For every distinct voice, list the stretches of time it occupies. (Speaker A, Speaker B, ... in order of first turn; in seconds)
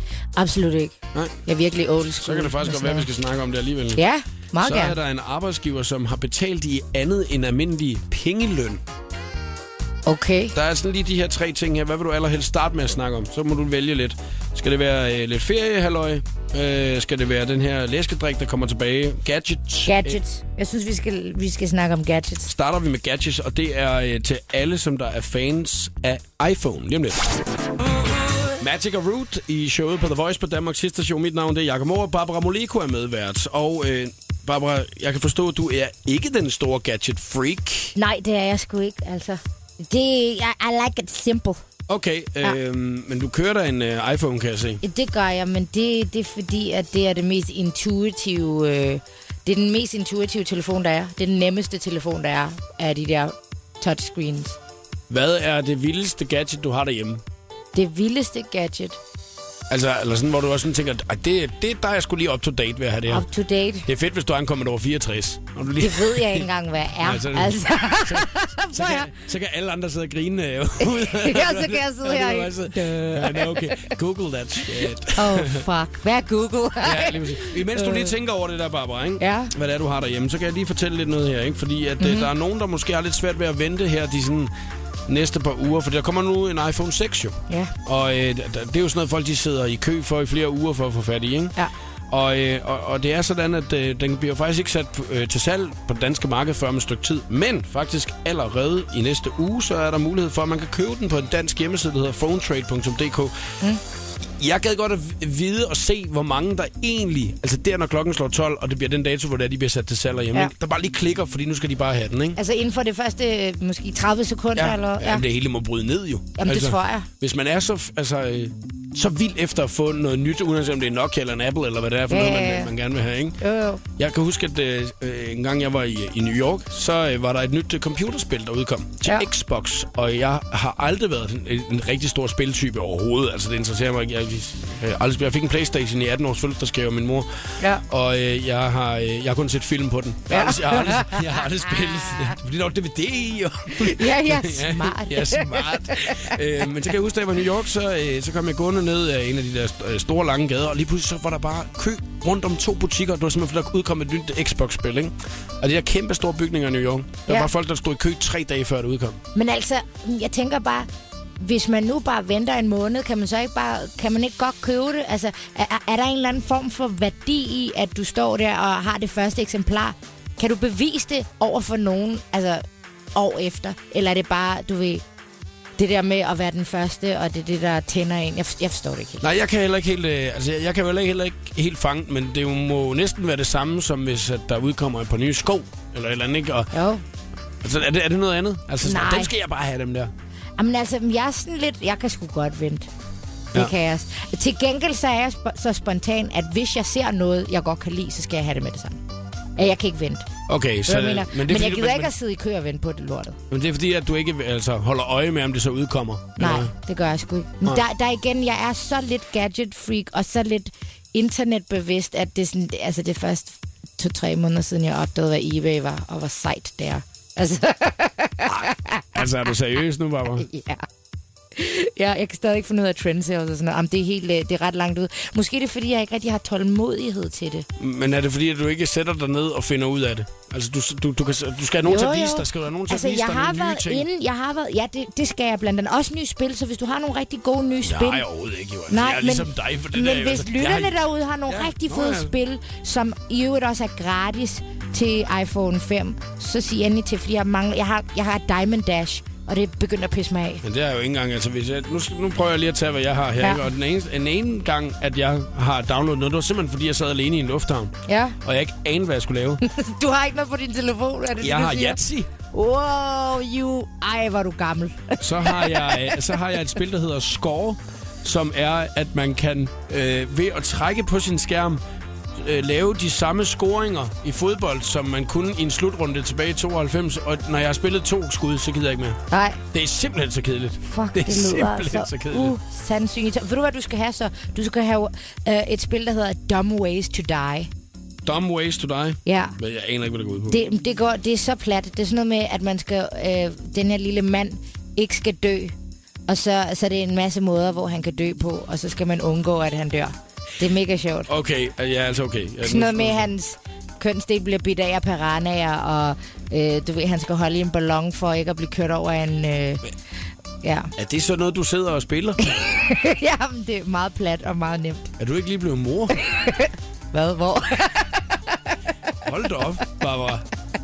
Speaker A: 0.4-3.1, 3.9-5.0, 10.1-10.5, 19.8-22.5, 38.0-41.6, 44.8-54.6, 57.7-59.0, 63.1-63.9, 65.8-69.1, 70.8-74.0, 75.1-78.1, 79.2-79.5, 82.0-82.3, 87.5-87.7, 112.3-115.2, 116.4-117.1, 122.1-122.7, 123.4-123.8, 140.3-141.4, 143.8-146.4, 159.3-160.9, 161.4-172.6, 173.1-175.0, 175.8-179.3, 186.7-187.0, 188.8-189.3, 190.6-192.9, 193.5-199.0, 199.6-200.3, 200.8-203.4, 206.4-219.2, 220.4-220.8, 221.5-227.7, 231.8-238.2, 238.9-250.6, 253.4-253.7, 258.1-258.4, 259.6-266.2, 279.3-279.6, 280.9-287.7, 289.2-289.6, 290.5-295.7, 296.3-301.3, 302.6-309.8, 310.6-310.9, 312.5-315.1, 316.3-318.4
Speaker B: 2.2-4.0, 4.6-8.8, 10.5-20.2, 22.4-27.3, 28.6-38.0, 41.9-44.8, 55.1-57.2, 59.7-63.3, 63.9-66.5, 67.0-75.6, 76.8-84.5, 85.1-91.5, 92.1-103.3, 104.4-112.4, 114.5-123.4, 124.0-137.3, 137.8-159.2, 179.2-186.7, 187.6-190.1, 200.5-202.1, 203.5-206.7, 218.5-220.5, 227.8-234.1, 237.8-242.3, 250.6-259.6, 261.4-262.3, 265.2-271.8, 272.4-279.2, 279.7-282.6, 288.2-290.6, 301.3-303.3, 311.0-312.5, 315.2-316.2, 319.2-320.4